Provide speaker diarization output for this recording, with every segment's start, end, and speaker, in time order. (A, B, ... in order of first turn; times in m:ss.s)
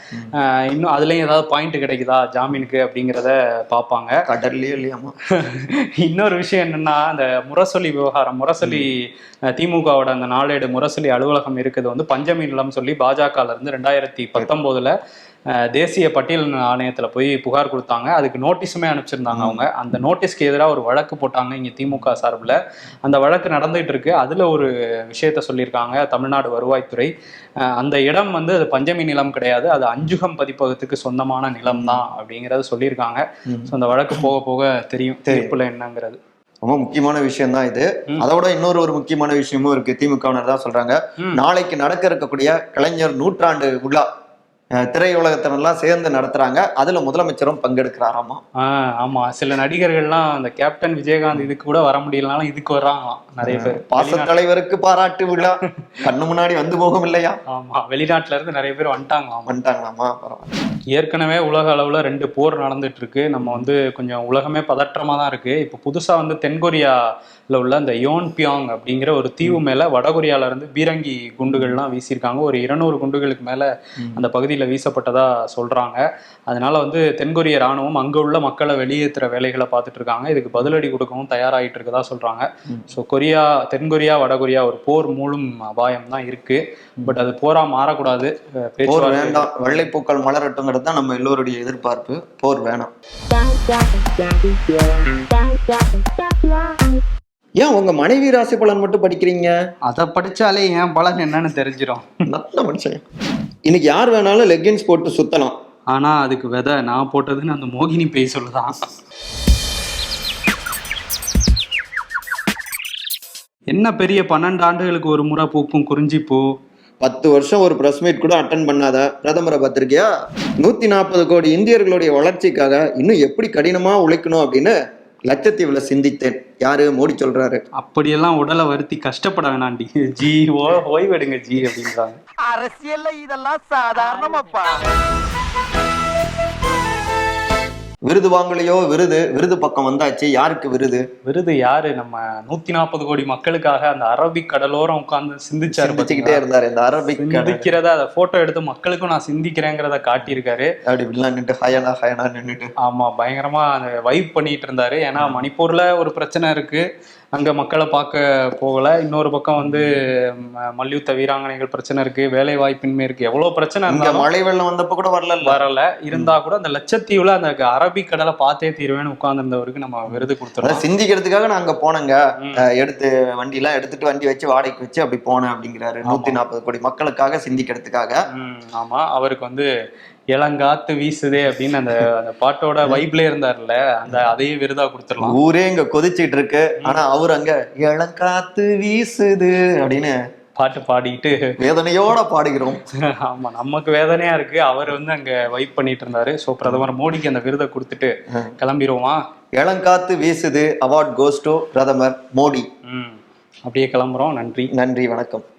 0:00.3-0:04.1 A
0:04.3-0:05.1 B
0:05.4-0:08.9 A
0:09.5-0:14.9 A
0:15.7-0:27.1 A
0:19.3-0:19.6 B
0:27.7-0:36.2 A
0:31.7-0:32.0 B
0:33.5-0:34.3 B
0:35.3-0:35.5 B
0:36.6-0:44.1 B
0:44.8-0:48.4 B
0:48.6-0:54.3 A
0:53.4-0:57.4 B
0:57.5-0:59.6 A
0:59.5-1:00.5 B
1:00.9-1:06.9 A
1:03.4-1:03.7 B
1:07.5-1:29.5 A
1:11.5-1:11.8 B
1:28.8-1:32.9 B
1:33.3-1:36.9 C
1:37.6-1:39.5 B
1:39.9-1:42.0 A
1:42.3-1:43.0 B
1:43.7-1:45.5 B
1:45.9-1:48.7 A
1:53.7-1:56.4 A
1:57.0-2:04.7 B
2:05.3-2:07.6 B
2:07.8-2:12.2 A
2:12.5-2:14.8 C
2:18.1-2:21.0 B
2:21.2-2:26.4 A
2:25.7-2:27.7 B
2:27.2-2:30.7 A
2:30.9-2:32.7 B
2:32.8-2:36.8 A
2:35.2-2:35.4 B
2:37.3-2:39.9 A
2:40.8-2:44.3 A
2:43.9-2:45.6 B
2:45.4-2:50.8 A
2:50.1-2:58.2 B
2:56.1-2:56.4 A
2:58.4-2:59.6 A
3:00.3-3:05.4 A
3:05.2-3:10.1 B
3:10.6-3:11.5 A
3:11.6-3:12.8 B
3:13.2-3:19.2 A
3:19.6-3:22.6 B
3:22.9-3:24.7 A
3:24.8-3:25.4 B